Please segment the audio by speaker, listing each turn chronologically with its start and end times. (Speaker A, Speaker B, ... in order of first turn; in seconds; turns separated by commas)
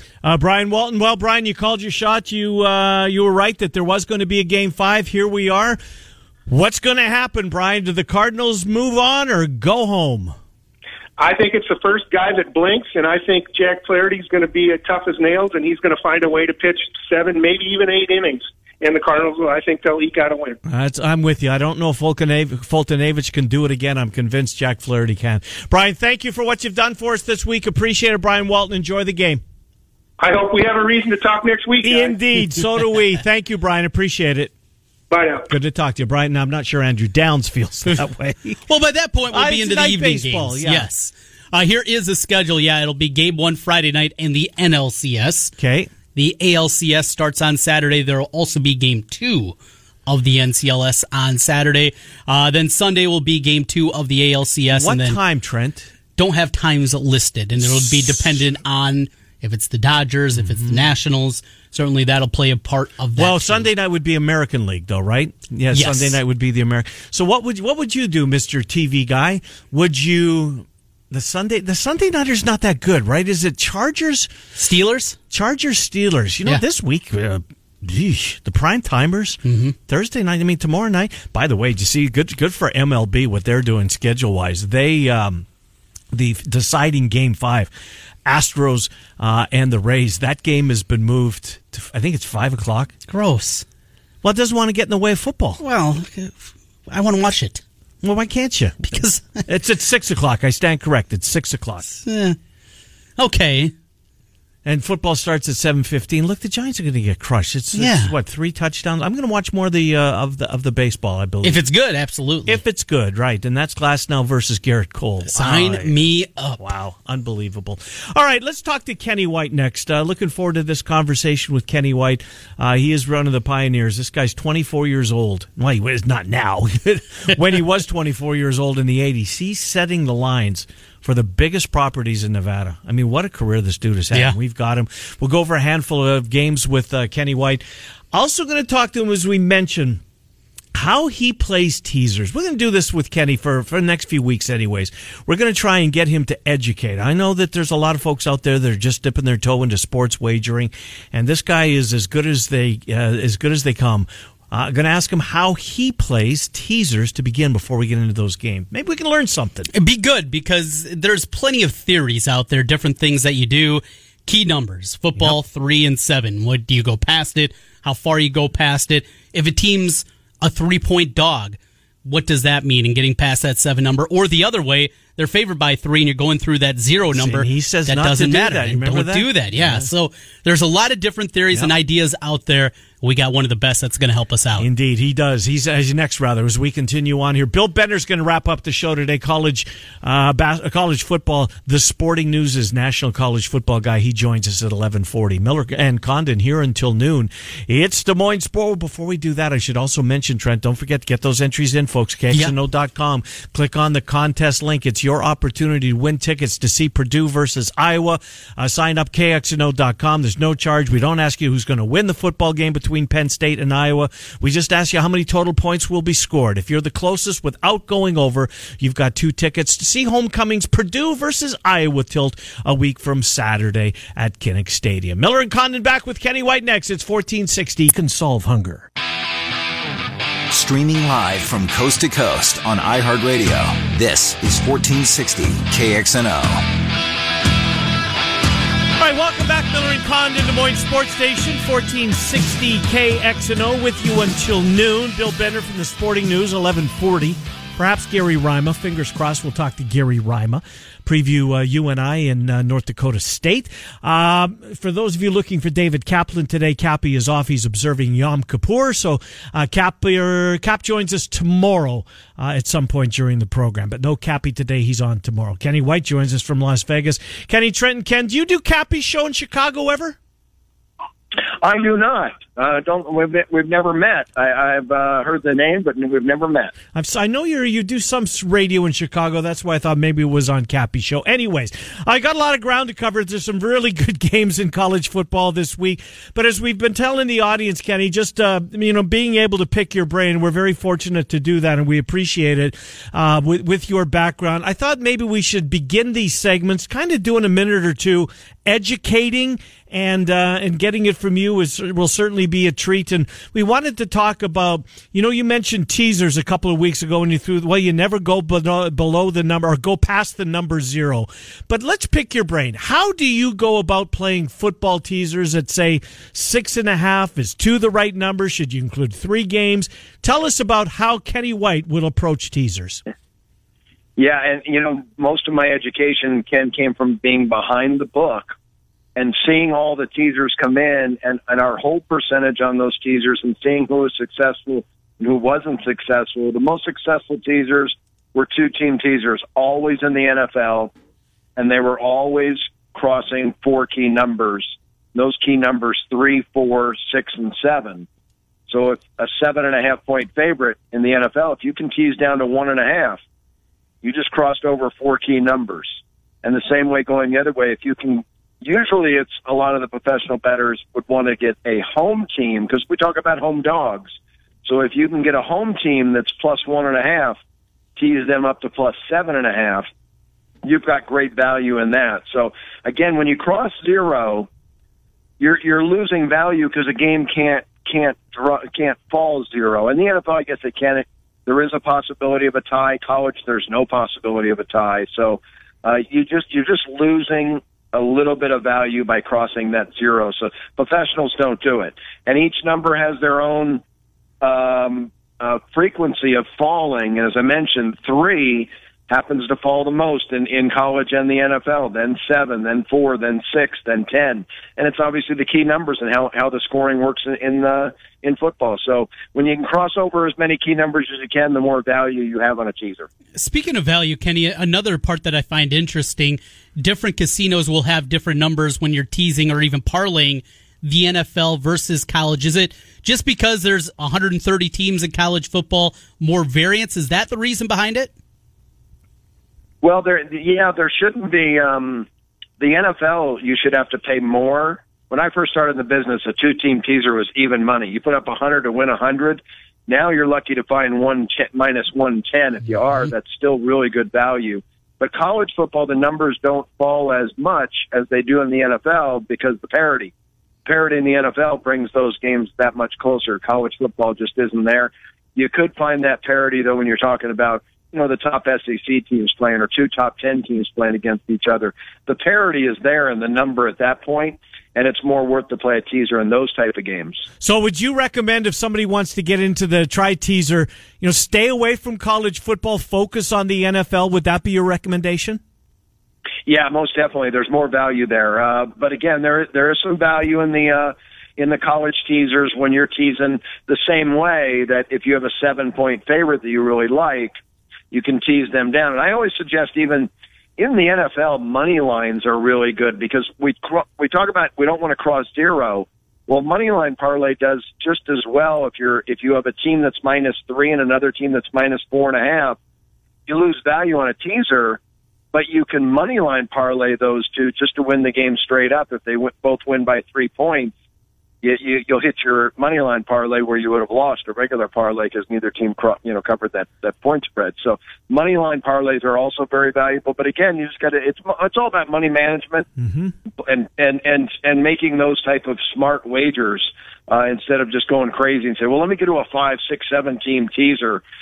Speaker A: 0.2-5.8, Speaker A: 6.5-10.3, Speaker B: 11.2-20.6, Speaker A: 20.6-29.4, Speaker B: 30.2-32.1, Speaker A: 31.8-34.5, Speaker B: 35.1-35.5, Speaker A: 35.5-38.6, Speaker C: 38.7-45.5, Speaker A: 39.3-40.9, Speaker A: 45.6-45.9, Speaker C: 46.1-49.5, Speaker C: 50.0-55.2, Speaker A: 54.7-55.9, Speaker C: 56.1-63.7, Speaker A: 63.1-74.3, Speaker C: 65.7-66.2, Speaker C: 74.5-75.2, Speaker A: 75.3-85.5, Speaker C: 79.4-79.7, Speaker A: 86.1-87.7, Speaker A: 88.2-92.9, Speaker C: 93.1-93.6, Speaker A: 94.2-95.6, Speaker C: 95.6-97.6, Speaker A: 98.0-98.9, Speaker C: 98.9-99.4, Speaker A: 99.5-101.9, Speaker C: 102.0-102.4, Speaker C: 103.2-103.7, Speaker A: 104.6-111.6, Speaker C: 107.7-108.1, Speaker C: 111.4-112.6, Speaker A: 112.5-115.9, Speaker C: 115.3-116.6, Speaker A: 116.6-140.0, Speaker A: 140.7-159.7, Speaker C: 159.7-184.7, Speaker A: 177.1-179.9, Speaker A: 184.6-228.9, Speaker D: 230.5-236.7, Speaker A: 239.0-270.2, Speaker E: 271.6-276.7, Speaker A: 276.9-323.0, Speaker E: 324.2-328.5, Speaker E: 329.1-340.9, Speaker E: 341.6-348.1, Speaker E: 348.7-353.2, Speaker E: 354.0-367.4, Speaker E: 368.0-369.9, Speaker E: 370.6-374.5, Speaker E: 375.4-393.8, Speaker E: 394.4-413.1, Speaker C: 413.4-428.1, Speaker E: 429.8-432.1, Speaker E: 432.6-450.1, Speaker E: 450.6-467.2, Speaker A: 467.4-475.4, Speaker E: 476.4-487.3, Speaker E: 487.9-502.6, Speaker E: 503.3-504.8, Speaker E: 505.3-510.7, Speaker E: 511.4-522.7, Speaker A: 522.8-523.1, Speaker E: 523.4-531.0